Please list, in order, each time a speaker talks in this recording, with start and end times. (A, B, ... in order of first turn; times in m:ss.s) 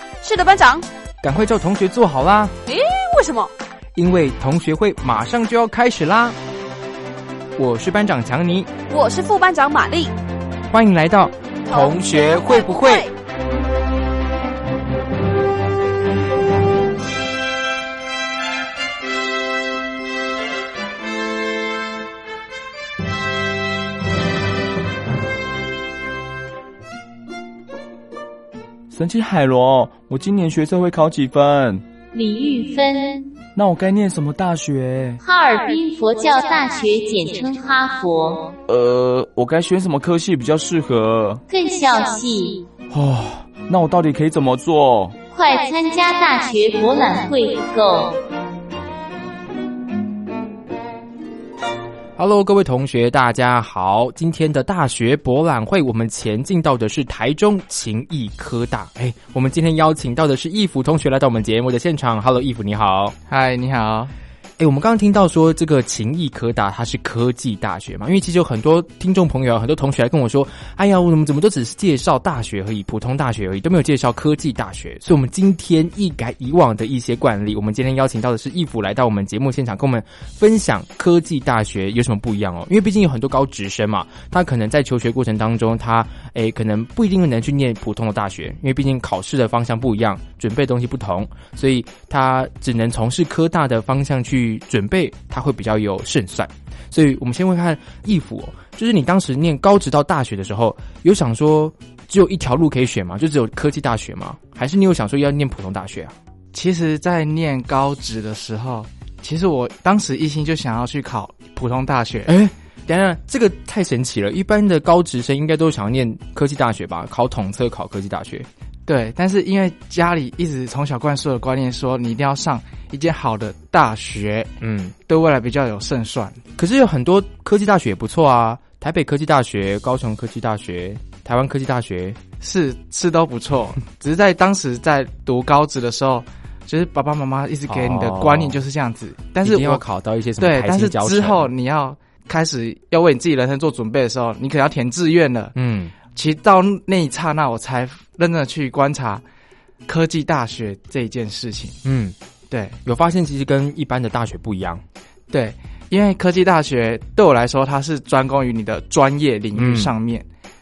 0:00.2-0:00.8 A
0:01.2-0:02.5 B
0:02.7-0:03.5 A
0:04.0-0:06.4 B
0:07.6-0:08.7 B
0:08.9-0:10.1 A
0:10.7-0:13.1 B
0:11.7-0:13.1 A
0:28.9-0:31.8 C
0:32.1-0:33.4 D
0:33.6-0:35.2 C
0:35.2-0:38.5 D
0:38.7-0:41.4 C
0:41.5-0:42.7 D
0:42.9-0:45.2 C
0:45.3-0:48.2 D
0:52.2-1:03.2 B
1:03.3-1:04.1 E
1:04.6-1:46.2 B
1:46.5-1:52.3 E
1:52.3-1:58.5 B
1:58.9-2:04.5 E
2:04.6-2:05.0 B
2:05.1-2:06.4 E
2:06.6-2:12.2 B
2:12.4-2:19.8 E
2:17.7-2:18.6 B
2:19.4-2:21.5 B
2:20.4-2:25.5 E
2:25.6-2:26.0 B
2:26.1-2:29.2 E
2:29.9-2:31.8 E
2:31.8-2:32.2 B
2:32.5-2:32.8 E
2:32.8-2:34.8 B
2:35.3-2:40.3 E
2:39.6-2:39.9 B